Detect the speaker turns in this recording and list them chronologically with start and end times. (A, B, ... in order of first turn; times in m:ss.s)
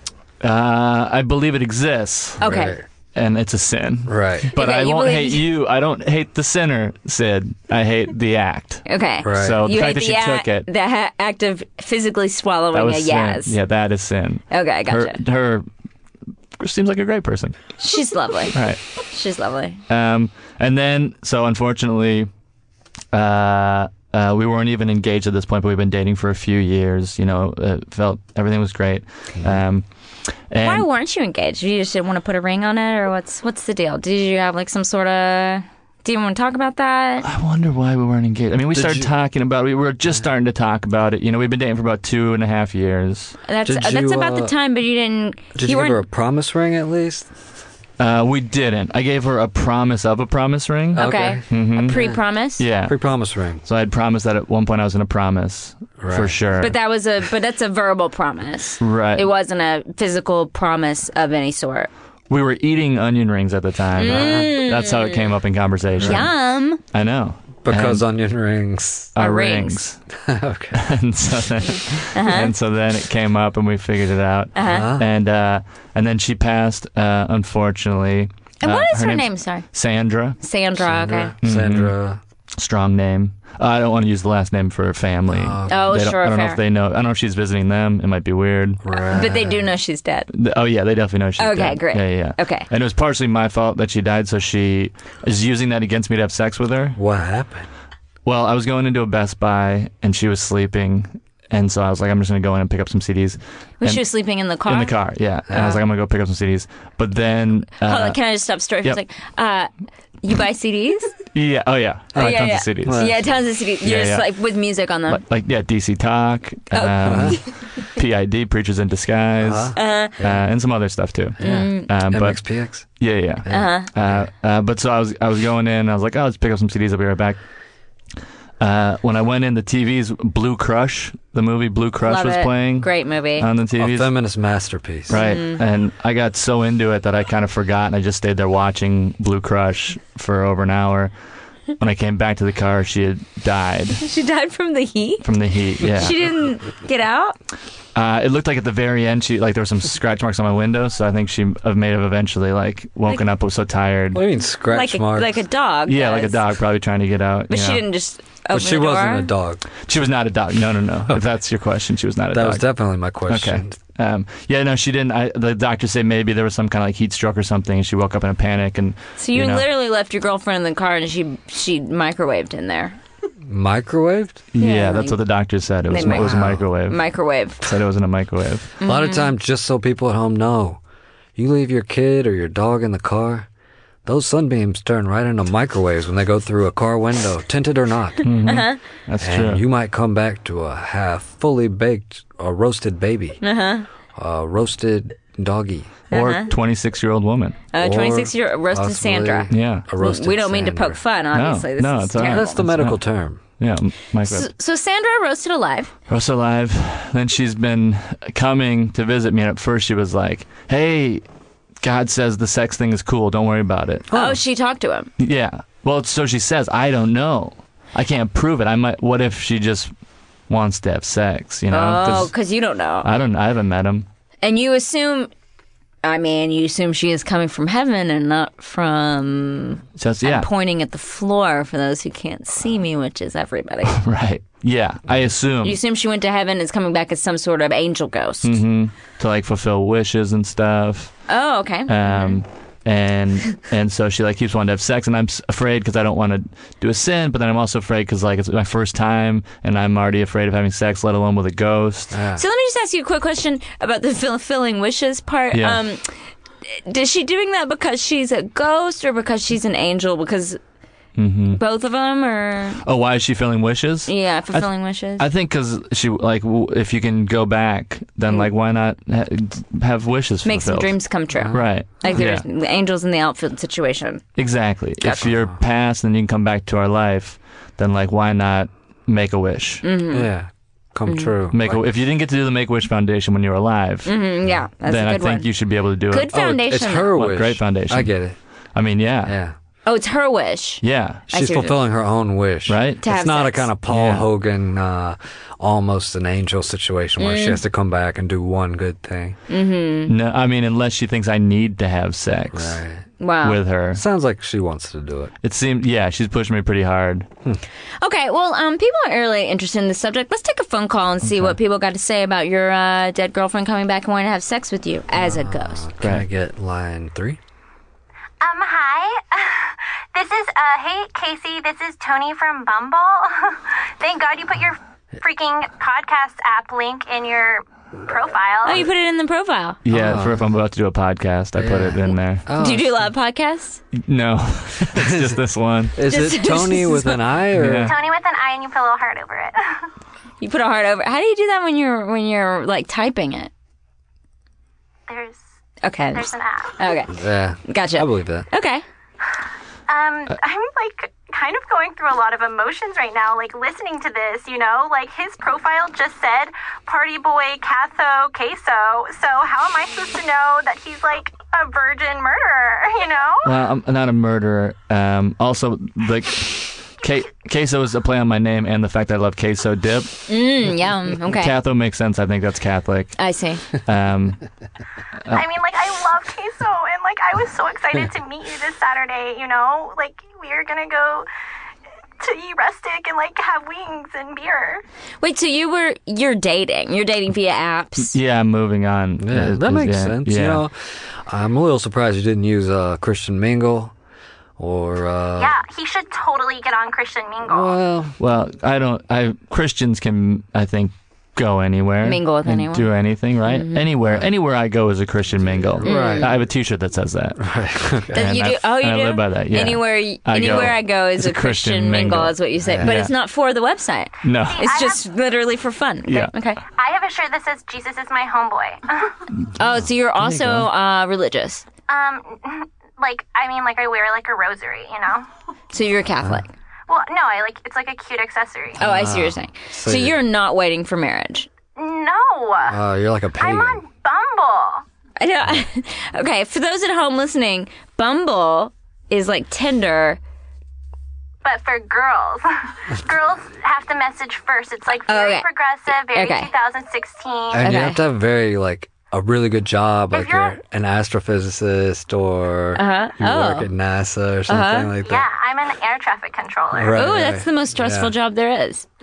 0:00.4-0:02.4 A
0:02.4-0:02.8 B
0:02.4-0:02.8 C
0:03.2-0:10.7 A
0:04.1-0:04.5 C
0:04.5-0:05.4 B
0:08.9-0:13.6 B
0:09.2-0:09.6 C
0:12.7-0:15.7 A
0:14.5-0:15.2 B
0:16.6-0:17.6 A
0:17.8-0:19.8 B
0:18.5-0:18.8 A
0:19.9-0:22.3 A
0:23.1-0:29.8 A
0:30.5-0:30.9 A
0:30.6-0:37.3 B
0:37.2-0:43.4 A
0:38.7-0:39.1 C
0:43.5-0:46.0 B
0:43.6-0:44.6 C
0:45.6-0:47.3 C
0:48.0-0:52.0 A
0:50.9-0:52.2 C
0:51.0-0:52.6 B
0:52.6-0:53.0 A
0:52.8-0:53.6 C
0:53.6-0:56.8 A
0:56.0-0:56.4 C
0:56.6-1:01.9 B
0:58.8-0:59.3 A
1:02.3-1:06.3 A
1:04.0-1:05.2 B
1:04.0-1:04.5 C
1:06.0-1:06.3 C
1:06.0-1:06.8 B
1:06.8-1:08.0 A
1:07.6-1:09.2 C
1:09.2-1:10.0 A
1:09.2-1:09.8 B
1:10.2-1:10.9 C
1:10.7-1:20.4 A
1:12.1-1:12.5 B
1:14.6-1:14.9 B
1:14.6-1:15.1 C
1:18.6-1:19.7 B
1:20.4-1:21.3 B
1:20.8-1:22.2 C
1:21.4-1:21.9 A
1:22.6-1:28.8 A
1:25.3-1:26.0 C
1:25.7-1:26.6 B
1:28.8-1:29.7 C
1:29.1-1:30.3 B
1:30.3-1:37.0 A
1:31.4-1:32.7 B
1:37.0-1:37.7 C
1:38.2-1:44.0 A
1:43.8-1:45.0 B
1:44.6-1:48.2 A
1:45.5-1:45.8 C
1:47.8-1:49.7 B
1:50.2-1:51.1 B
1:51.3-1:53.1 A
1:52.1-1:53.3 C
1:52.2-1:55.2 B
1:53.8-1:54.3 A
1:55.1-2:07.4 A
1:56.7-1:57.5 B
1:57.0-1:57.4 C
1:59.4-2:00.4 C
1:59.8-2:00.2 B
2:01.4-2:04.3 C
2:01.4-2:01.9 B
2:03.5-2:03.9 B
2:08.6-2:14.1 A
2:12.0-2:13.5 B
2:13.8-2:15.2 C
2:15.1-2:21.1 A
2:15.1-2:15.6 B
2:21.8-2:24.0 A
2:24.0-2:25.3 B
2:25.2-2:26.3 A
2:25.8-2:27.4 B
2:28.0-2:34.2 A
2:34.1-2:35.4 C
2:34.7-2:36.4 B
2:35.9-2:37.8 A
2:37.5-2:39.3 B
2:38.5-2:39.7 C
2:39.9-2:42.7 A
2:42.3-2:43.8 C
2:43.3-2:49.6 A
2:49.2-2:53.0 B
2:53.4-2:54.4 C
2:54.5-2:57.1 A
2:54.6-2:55.2 B
2:55.9-2:57.6 B
2:56.0-2:56.7 C
2:57.6-2:58.7 A
2:58.8-2:59.3 B
2:58.8-3:00.8 C
3:01.4-3:03.5 C
3:04.0-3:08.3 C
3:08.2-3:09.6 A
3:08.4-3:08.8 B
3:09.2-3:13.4 C
3:13.4-3:13.9 B
3:14.2-3:15.9 C
3:16.1-3:16.5 B
3:16.1-3:17.6 A
3:17.7-3:22.6 B
3:17.8-3:21.0 C
3:19.5-3:19.8 A
3:21.3-3:23.0 A
3:22.2-3:23.4 C
3:23.6-3:24.5 A
3:24.3-3:25.9 B
3:26.1-3:31.2 A
3:31.8-3:34.1 A
3:34.1-3:34.4 C
3:34.1-3:35.1 B
3:35.2-3:39.9 A
3:40.5-3:42.3 A
3:41.7-3:43.1 B
3:43.0-3:44.1 A
3:44.4-3:45.3 B
3:46.0-3:54.0 B
3:50.0-3:50.5 A
3:53.9-3:55.8 A
3:55.6-3:58.6 B
3:58.4-4:01.3 A
4:01.3-4:02.4 B
4:01.9-4:12.2 A
4:12.1-4:12.4 C
4:12.4-4:20.6 B
4:15.5-4:15.8 A
4:21.2-4:21.6 A
4:21.6-4:22.8 B
4:22.8-4:31.0 A
4:24.1-4:25.2 B
4:30.4-4:34.3 B
4:31.3-4:31.7 C
4:31.5-4:32.4 A
4:34.4-4:39.8 A
4:35.0-4:35.3 B
4:35.3-4:35.5 C
4:39.8-4:40.3 B
4:40.1-4:41.8 C
4:41.1-4:41.3 B
4:41.5-4:44.2 A
4:44.0-4:45.5 B
4:44.9-4:48.1 A
4:46.1-4:47.2 B
4:46.3-4:48.4 C
4:48.8-4:49.4 A
4:49.2-4:49.6 C
4:49.8-4:51.8 B
4:50.8-4:51.3 A
4:51.3-4:59.4 C
4:52.7-4:53.0 A
4:53.0-4:53.7 B
4:53.9-4:54.3 A
4:57.2-4:57.6 B
4:59.5-5:00.1 B
5:00.1-5:02.8 A
5:02.5-5:03.1 C
5:03.2-5:03.6 B
5:03.4-5:04.0 A
5:03.9-5:05.3 C
5:05.4-5:07.3 A
5:08.0-5:15.8 B
5:15.1-5:17.4 C
5:18.4-5:28.8 D
5:28.6-5:29.8 B
5:29.8-5:32.5 A
5:29.9-5:30.5 C
5:31.6-5:33.0 C
5:32.6-5:33.8 B
5:34.0-5:36.0 A
5:35.0-5:35.4 C
5:35.9-5:37.9 C
5:36.1-5:37.2 B
5:37.5-5:38.0 A
5:37.8-5:39.8 D
5:40.4-5:43.5 B
5:45.1-5:45.4 D
5:45.8-5:48.8 B
5:46.1-5:46.8 D
5:47.1-5:48.5 C
5:49.9-6:03.6 D
6:03.4-6:10.3 A
6:10.3-6:11.5 B
6:11.2-6:14.4 A
6:13.2-6:13.6 B
6:15.3-6:21.3 D
6:22.2-6:24.8 D
6:25.2-6:28.1 B
6:28.1-6:30.6 A
6:29.2-6:33.9 C
6:34.6-6:35.6 C
6:35.4-6:37.8 D
6:37.5-6:38.2 C
6:38.2-6:47.4 A
6:42.0-6:42.9 B
6:43.5-6:43.8 B
6:45.5-6:46.4 C
6:45.8-6:46.3 B
6:47.4-6:48.2 C
6:48.1-6:53.1 A
6:48.1-6:56.6 B
6:52.6-6:53.0 C
6:54.2-6:54.7 A
6:54.4-6:55.0 D
6:56.7-6:59.3 D
6:59.6-7:01.7 B
7:00.2-7:00.7 A
7:01.9-7:05.3 D
7:05.7-7:06.5 B
7:06.9-7:08.8 D
7:08.8-7:11.5 B
7:08.8-7:10.2 C
7:11.8-7:12.8 D
7:12.7-7:13.8 C
7:13.4-7:14.8 D
7:15.2-7:20.2 B
7:21.4-7:27.7 D
7:25.1-7:25.5 B
7:26.1-7:26.5 B
7:27.5-7:35.3 C
7:27.6-7:28.0 B
7:30.1-7:30.6 D
7:32.8-7:33.7 B
7:34.5-7:34.9 B
7:35.0-7:37.0 D
7:36.7-7:38.1 C
7:36.9-7:38.9 B